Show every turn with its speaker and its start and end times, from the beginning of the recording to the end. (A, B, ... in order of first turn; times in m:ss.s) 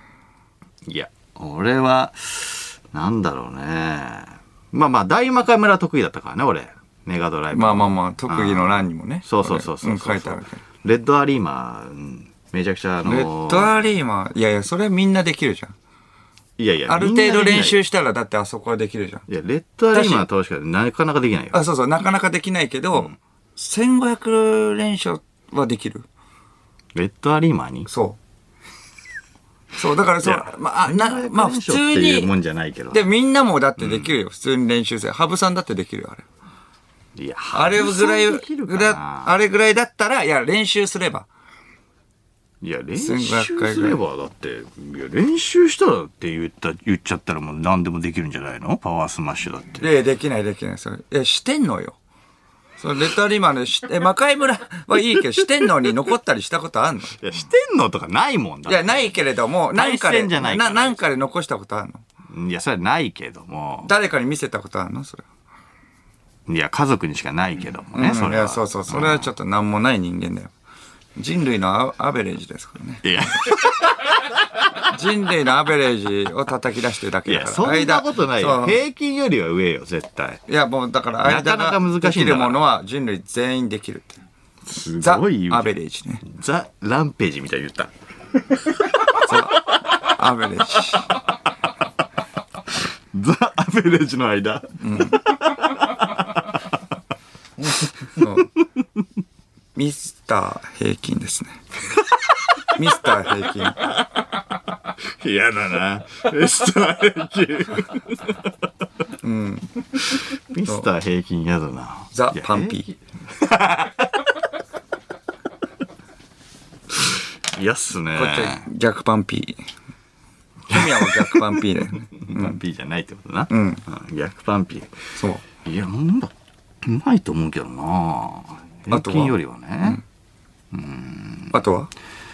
0:00.8-0:13.8 A
0:07.5-0:10.6 B
0:13.0-0:15.7 B
0:16.6-0:17.8 A
0:16.9-0:19.2 B
0:19.3-0:21.6 A
0:19.9-0:20.2 B
0:21.5-0:26.1 B
0:26.9-0:27.9 A
0:27.9-0:28.2 B
0:29.7-0:32.3 B
0:30.2-0:33.0 A
0:32.9-0:36.2 B
0:33.8-0:34.1 A
0:37.2-0:39.3 A
0:37.5-0:41.3 B
0:42.6-0:49.9 A
0:43.0-0:44.0 B
0:49.8-0:52.0 B
0:52.8-0:57.2 B
0:57.2-0:59.1 A
0:58.6-1:02.0 B
0:59.7-1:01.0 A
1:02.3-1:03.9 A
1:03.8-1:05.2 B
1:06.5-1:09.3 A
1:07.9-1:10.5 B
1:11.2-1:13.0 B
1:13.0-1:14.9 A
1:14.9-1:18.8 B
1:17.2-1:20.4 A
1:20.5-1:24.2 B
1:21.2-1:22.6 A
1:24.6-1:27.9 A
1:25.0-1:26.2 B
1:28.5-1:29.8 A
1:29.1-1:31.1 B
1:33.1-1:36.6 A
1:34.8-1:35.2 B
1:38.2-1:38.5 B
1:39.7-1:41.6 B
1:42.0-1:42.7 A
1:42.7-1:43.8 B
1:45.0-1:48.5 A
1:49.2-1:49.7 B
1:50.0-1:54.2 A
1:52.1-1:52.9 B
1:56.9-1:58.6 A
1:58.1-1:59.6 B
2:00.7-2:10.0 A
2:00.7-2:02.6 B
2:03.5-2:03.8 B
2:05.2-2:05.4 B
2:08.9-2:10.0 B
2:10.7-2:11.6 A
2:11.5-2:11.9 B